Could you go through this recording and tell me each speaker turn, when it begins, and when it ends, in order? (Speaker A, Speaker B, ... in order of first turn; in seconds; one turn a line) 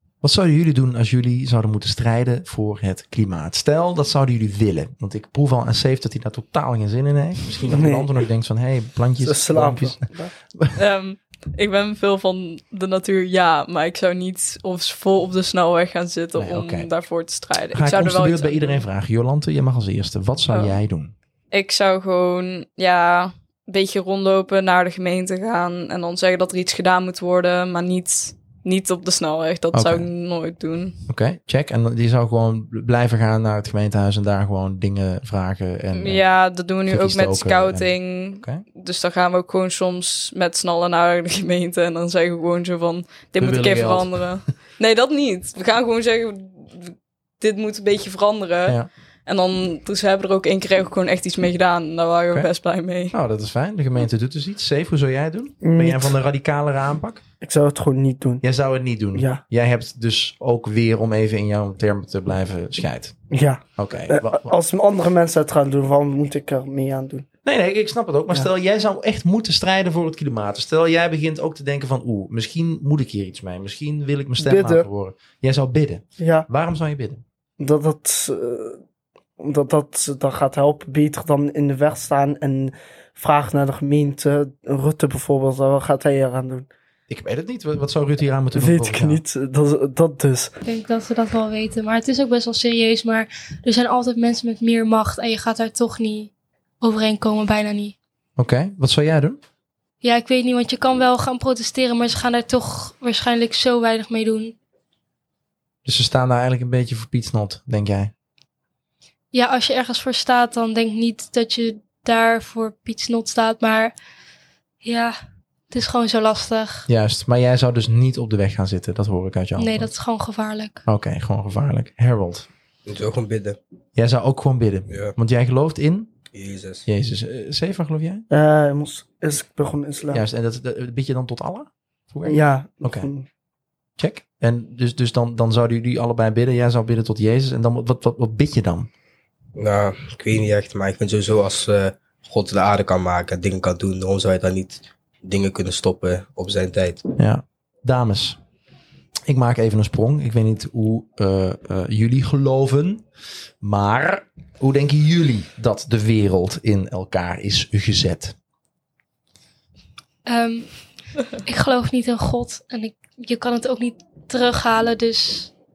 Speaker A: 0.2-10.8
Speaker B: 7.7-8.1
Speaker B: 9.2-10.3
Speaker C: 10.8-18.9
Speaker A: 16.4-16.9
Speaker A: 17.7-21.1
Speaker C: 20.5-20.8
Speaker C: 21.5-31.0
Speaker A: 29.7-30.1
Speaker A: 31.1-36.3
Speaker C: 35.9-53.1
Speaker A: 36.9-38.6
Speaker A: 43.4-44.2
Speaker A: 53.1-57.2
Speaker B: 55.6-56.2
Speaker B: 57.4-58.4
Speaker A: 58.4-63.2
Speaker B: 59.1-59.4
Speaker B: 63.3-67.3
Speaker A: 63.8-64.5
Speaker A: 67.4-77.2
Speaker B: 74.4-74.9
Speaker B: 76.2-76.5
Speaker B: 77.6-78.8
Speaker B: 79.4-86.7
Speaker A: 87.1-89.2
Speaker B: 88.5-90.5
Speaker D: 90.6-98.0
Speaker A: 98.4-99.4
Speaker D: 100.0-104.6
Speaker A: 105.8-108.1
Speaker D: 109.3-113.9
Speaker D: 114.8-115.2
Speaker D: 115.7-116.9
Speaker A: 116.9-119.9
Speaker D: 119.6-120.8
Speaker A: 120.9-122.5
Speaker E: 122.9-123.6
Speaker A: 124.0-126.1
Speaker E: 124.9-125.2
Speaker E: 126.3-126.9
Speaker A: 126.9-128.3
Speaker B: 128.3-130.2
Speaker A: 130.1-133.1
Speaker B: 132.2-133.3
Speaker A: 134.0-138.9
Speaker E: 139.6-147.0
Speaker A: 147.2-148.4
Speaker A: 149.3-153.1
Speaker A: 153.6-158.3
Speaker D: 160.3-160.8
Speaker D: 161.4-165.5